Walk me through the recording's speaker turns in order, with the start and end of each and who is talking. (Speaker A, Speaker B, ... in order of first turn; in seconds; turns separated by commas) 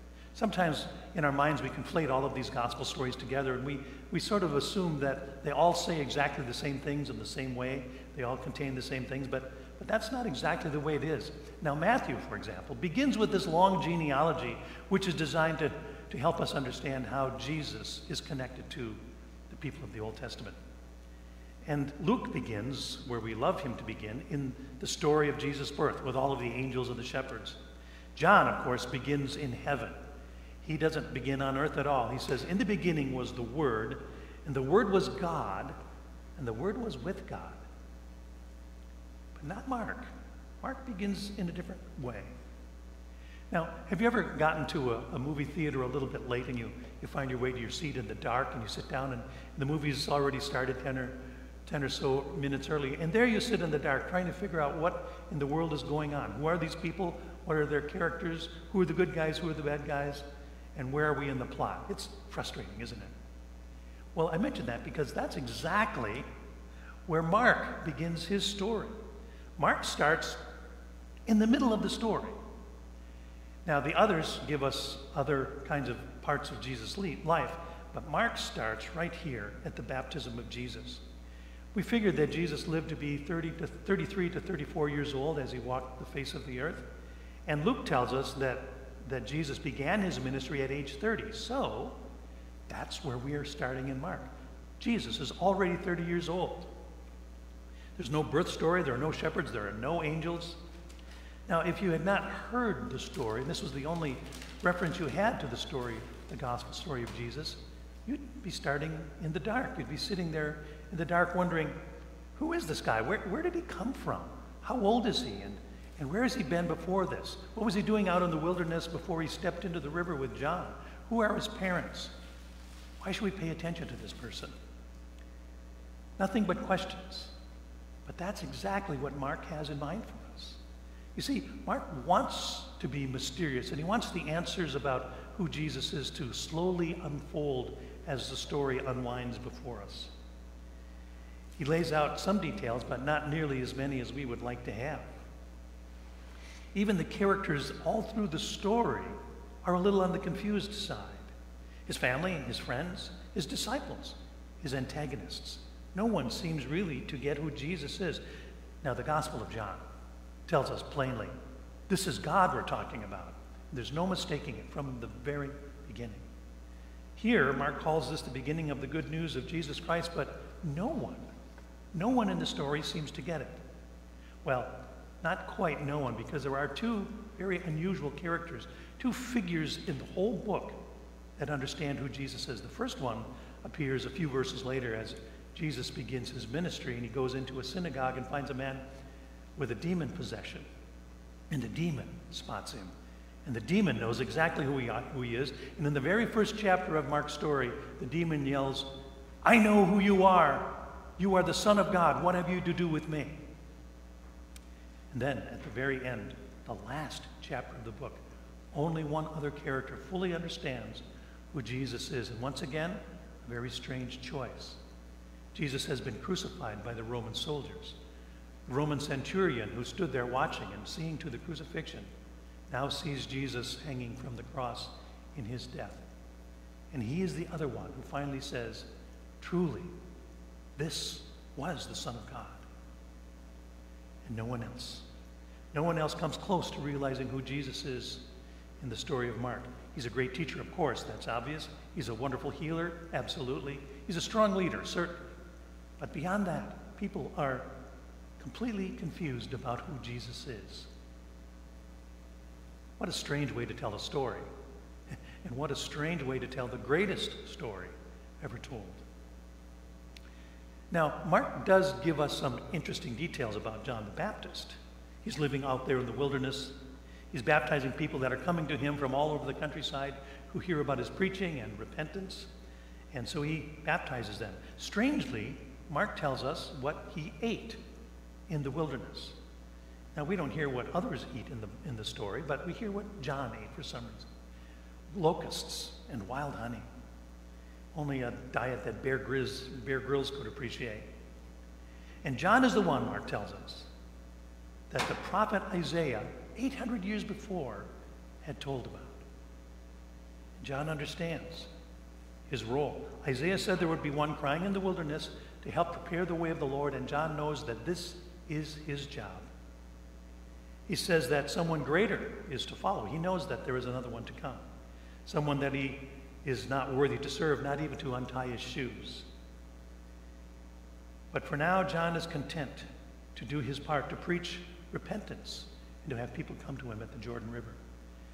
Speaker A: 0.3-20.6, Speaker A: 21.6-27.6, Speaker A: 28.1-30.0, Speaker A: 30.6-35.8, Speaker A: 36.4-37.6, Speaker A: 39.3-42.3, Speaker A: 43.5-63.1, Speaker A: 64.1-66.3, Speaker A: 67.1-69.0, Speaker A: 69.6-70.4, Speaker A: 71.2-72.4, Speaker A: 73.6-81.0, Speaker A: 81.7-86.9, Speaker A: 87.5-92.0, Speaker A: 92.7-96.7, Speaker A: 98.0-100.6, Speaker A: 101.5-111.8, Speaker A: 112.3-122.2, Speaker A: 123.0-124.5, Speaker A: 126.2-127.3, Speaker A: 128.1-130.6, Speaker A: 131.1-140.1, Speaker A: 141.6-145.2, Speaker A: 146.7-151.3, Speaker A: 151.8-158.2, Speaker A: 158.8-159.8, Speaker A: 160.5-161.3, Speaker A: 161.9-166.3, Speaker A: 167.2-171.3, Speaker A: 171.9-173.6, Speaker A: 174.4-180.8, Speaker A: 181.4-188.8, Speaker A: 189.6-190.7, Speaker A: 191.5-192.9, Speaker A: 193.4-203.4, Speaker A: 205.1-208.2, Speaker A: 208.7-214.8, Speaker A: 215.5-218.0, Speaker A: 218.7-222.1, Speaker A: 222.7-226.1, Speaker A: 226.9-229.9, Speaker A: 230.8-232.6, Speaker A: 234.2-235.1, Speaker A: 235.7-238.3, Speaker A: 238.8-245.3, Speaker A: 246.0-247.8, Speaker A: 248.4-250.9, Speaker A: 253.0-254.5, Speaker A: 255.1-259.0, Speaker A: 260.9-272.5, Speaker A: 273.1-277.8, Speaker A: 278.5-279.4, Speaker A: 280.1-284.3, Speaker A: 285.1-286.9, Speaker A: 287.9-291.1, Speaker A: 292.2-293.9, Speaker A: 294.9-297.9, Speaker A: 298.4-299.2, Speaker A: 300.6-301.7, Speaker A: 302.5-309.5, Speaker A: 310.9-314.7, Speaker A: 315.2-319.3, Speaker A: 321.3-327.8